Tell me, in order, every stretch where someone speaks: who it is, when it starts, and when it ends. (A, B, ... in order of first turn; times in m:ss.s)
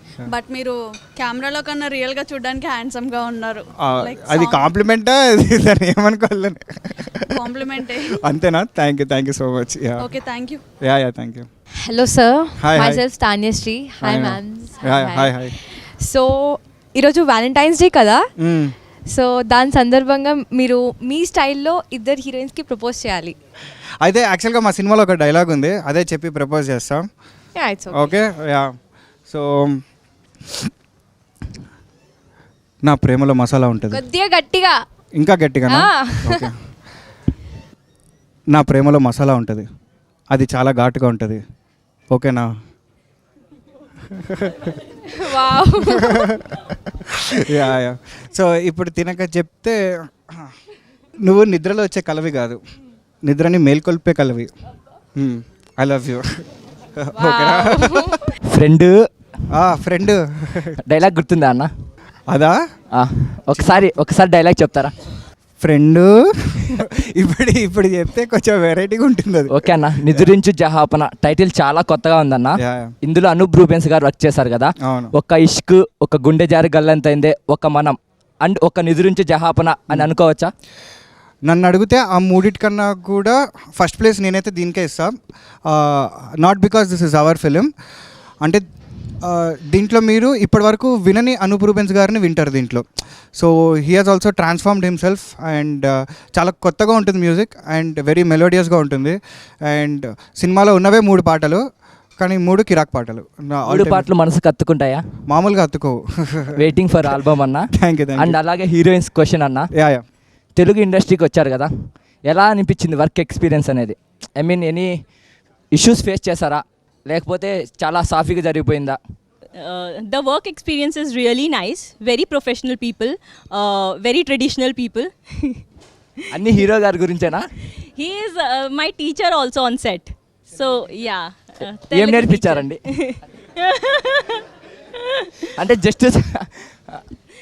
0:00.2-0:04.7 A
0:03.8-0:07.4 B
0:07.4-0:08.2 A
0:08.2-0:10.1 B
0:10.0-0:10.6 A
0:10.8-0:11.5 B
0:11.8-0:18.3 C
0:12.6-0:13.0 B
0:14.0-0:15.5 B
0:18.4-0:18.7 B
0:19.1-0:23.3 C
0:24.0-0:27.0 B
0:27.6-0:28.2 C
0:27.9-0:28.7 B
0:29.3-0:29.8 B
0:32.8-0:34.0 B
0:33.9-0:34.8 C
0:35.2-0:36.5 B
0:35.7-0:36.4 C
0:38.5-0:39.6 B
0:40.3-0:41.4 B
0:42.1-0:42.5 B
0:44.2-0:44.7 B
0:45.2-0:46.3 C
0:45.9-0:46.2 B
0:47.4-0:50.5 B
0:51.2-0:52.6 B
0:53.2-0:54.5 B
0:55.2-0:56.4 B
0:57.0-0:58.3 B
0:57.2-0:58.1 C
0:58.5-0:59.1 D
0:59.5-1:00.8 B
1:00.9-1:01.7 D
1:02.3-1:02.6 B
1:02.9-1:04.9 D
1:03.6-1:03.9 B
1:05.6-1:10.4 B
1:09.5-1:20.5 D
1:12.6-1:12.9 B
1:14.8-1:15.1 B
1:19.9-1:20.1 B
1:21.5-1:25.1 B
1:25.7-1:27.7 B
1:29.2-1:32.8 B
1:33.4-1:41.6 B
1:42.2-1:44.1 B
1:43.7-1:45.0 D
1:45.3-1:47.3 B
1:46.6-1:49.7 D
1:47.8-1:48.4 B
1:49.7-1:50.0 B
1:50.6-1:51.7 D
1:52.2-1:54.9 D
1:55.7-1:59.0 D
1:59.6-2:05.6 E
2:06.3-2:07.4 D
2:07.9-2:14.4 E
2:11.9-2:12.8 D
2:15.6-2:16.9 D